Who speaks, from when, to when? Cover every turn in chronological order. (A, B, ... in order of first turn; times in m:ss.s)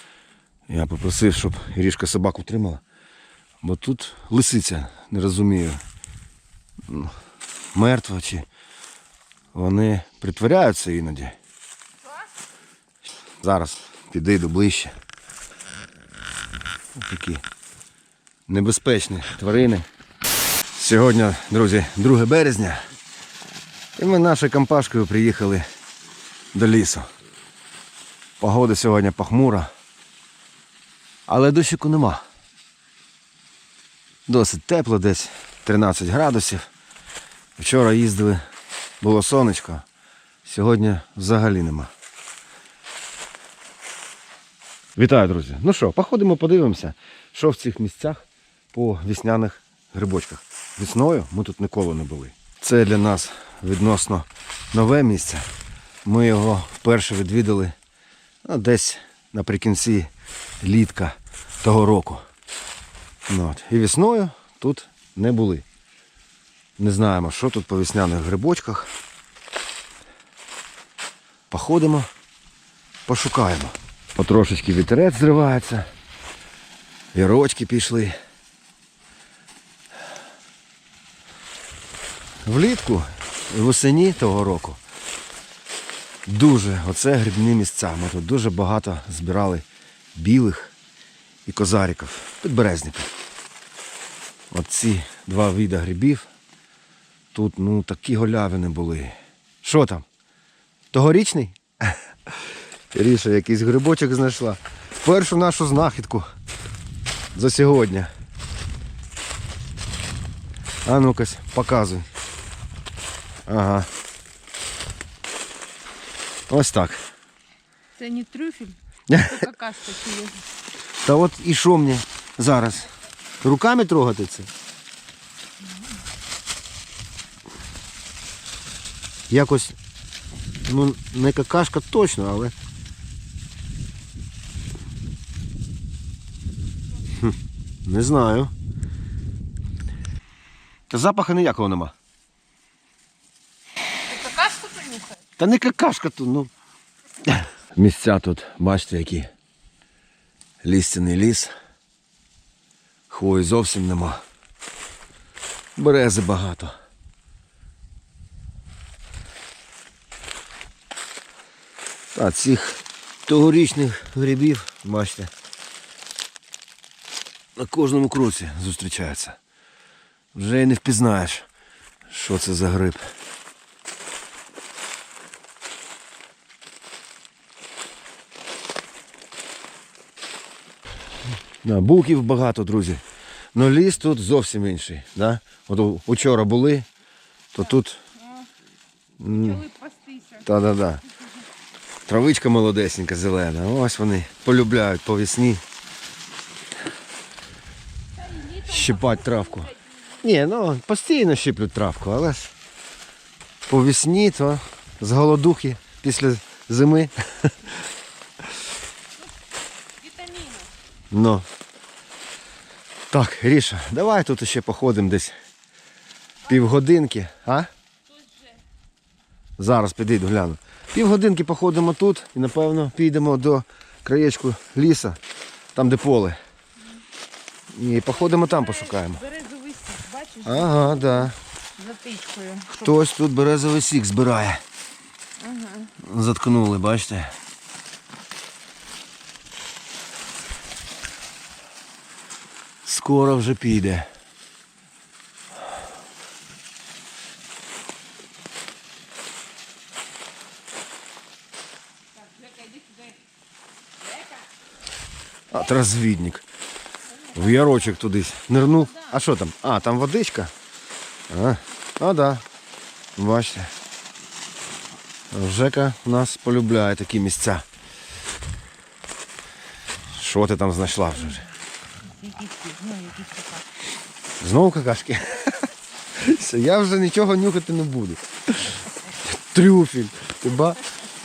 0:00.7-0:02.8 A
0:03.6-0:05.8 A
0:06.9-0:07.1 A
0:07.7-0:08.4 A
0:09.5-0:11.3 A
0:13.4-0:14.9 A
0:16.9-0:17.4 A
0:18.5-0:19.8 A
0:20.8-0:22.8 A
0:24.0-0:25.6 A
0:26.5-0:27.1 A
0:28.4-0:29.7 A
0:31.3-0:32.2 A
0:34.3-0:36.7 A
0:37.6-0:38.4 A
0:39.0-0:39.8 A
0:40.4-0:41.9 A
0:45.0-0:55.4 A
0:56.0-0:57.7 A
0:58.4-1:00.1 A
1:00.6-1:02.2 A
1:03.3-1:05.6 A
1:06.8-1:08.9 A
1:11.5-1:12.1 A
1:13.1-1:15.8 A
1:17.1-1:18.1 A
1:22.4-1:24.8 A
1:26.2-1:30.7 A
1:31.4-1:33.1 A
1:34.5-1:36.3 A
1:37.3-1:40.0 A
1:40.9-1:42.0 A
1:42.9-1:46.3 A
1:47.3-1:48.1 A
1:50.8-1:52.1 A
1:53.5-1:53.9 A
1:56.5-1:57.0 A
1:58.0-2:00.4 B
1:59.1-1:59.4 A
2:01.0-2:02.9 A
2:03.4-2:04.5 A
2:09.3-2:09.8 A
2:10.6-2:12.5 A
2:17.8-2:18.5 A
2:20.9-2:21.9 A
2:24.1-2:25.1 B
2:25.4-2:26.5 A
2:27.2-2:29.3 A
2:30.6-2:31.5 A
2:33.1-2:34.2 A
2:35.8-2:36.7 A
2:42.1-2:45.3 A
2:47.6-2:49.4 A
2:50.3-2:51.4 A
2:52.1-2:53.1 A
3:01.6-3:03.0 A
3:03.5-3:06.9 A
3:07.5-3:08.0 A
3:09.2-3:09.6 A
3:09.3-3:10.4 B
3:10.4-3:11.0 A
3:12.0-3:15.6 A
3:18.2-3:19.8 B
3:18.6-3:22.5 A
3:23.7-3:27.7 A
3:30.0-3:30.7 B
3:31.1-3:31.5 A
3:33.1-3:35.3 A
3:36.4-3:37.7 A
3:38.3-3:38.5 B
3:39.6-3:45.2 A
3:45.7-3:46.4 A
3:47.7-3:49.2 A
3:48.3-3:52.9 B
3:50.4-3:51.3 A
3:52.7-3:54.6 A
3:55.4-3:55.9 B
3:56.0-3:57.3 A
4:02.8-4:04.1 A
4:12.4-4:13.1 B
4:15.5-4:16.4 A
4:17.3-4:17.8 B
4:17.3-4:20.5 A
4:18.7-4:19.1 B
4:21.3-4:22.4 A
4:23.2-4:23.7 A
4:25.3-4:27.6 A
4:30.1-4:31.5 A
4:32.1-4:33.6 B
4:34.4-4:40.8 A